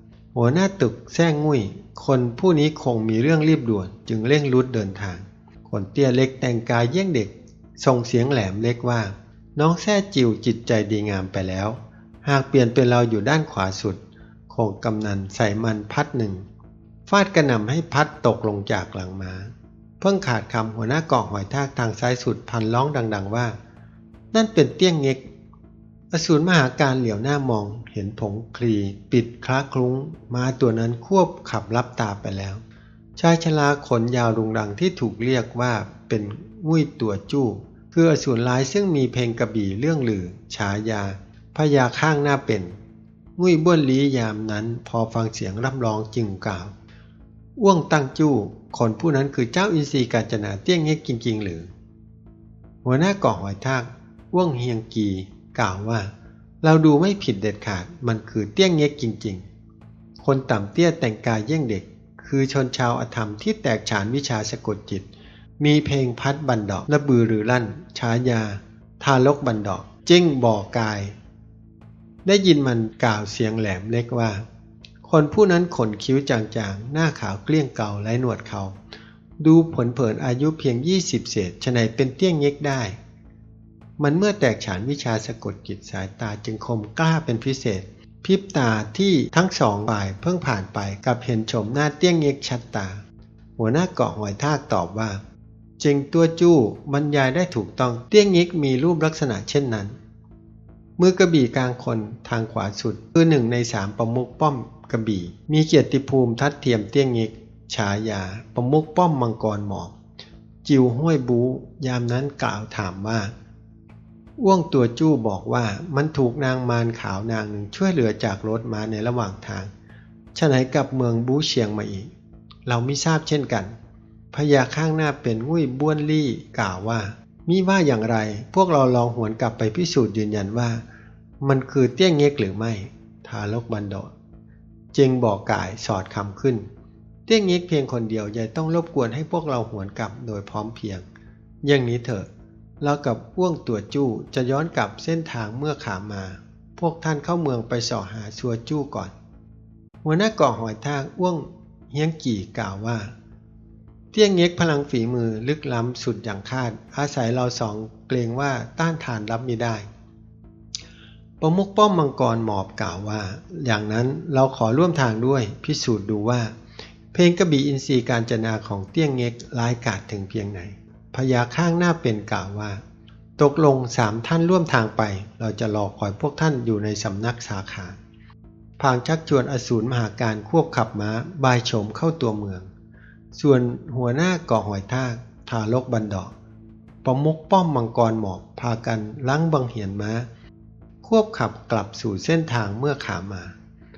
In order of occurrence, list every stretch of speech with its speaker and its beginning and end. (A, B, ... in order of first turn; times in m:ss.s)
0:00.3-0:16.4 A
0:17.1-0:23.6 A
0:24.3-0:25.2 A
0:26.1-0:32.6 A
0:33.2-0:42.8 A
0:43.4-0:46.7 A
0:47.6-0:51.7 A
0:52.8-0:59.5 A
1:00.2-1:05.1 A
1:05.6-1:11.2 A
1:12.2-1:14.4 A
1:15.0-1:18.8 A
1:19.4-1:23.0 A
1:24.0-1:33.0 A
1:33.6-1:35.2 A
1:35.8-1:40.0 A
1:41.0-1:50.0 A
1:50.6-1:53.3 A
1:54.4-1:59.7 A
2:00.4-2:02.1 A
2:02.7-2:03.8 A
2:04.3-2:10.8 A
2:11.4-2:14.1 A
2:14.9-2:16.7 A
2:17.3-2:21.1 A
2:21.6-2:22.3 A
2:22.8-2:29.1 A
2:30.0-2:33.1 A
2:34.1-2:39.9 A
2:41.4-2:46.5 A
2:47.1-2:52.8 A
2:53.4-2:58.0 A
2:58.8-3:02.7 A
3:03.3-3:06.3 A
3:07.0-3:10.3 A
3:11.0-3:13.6 A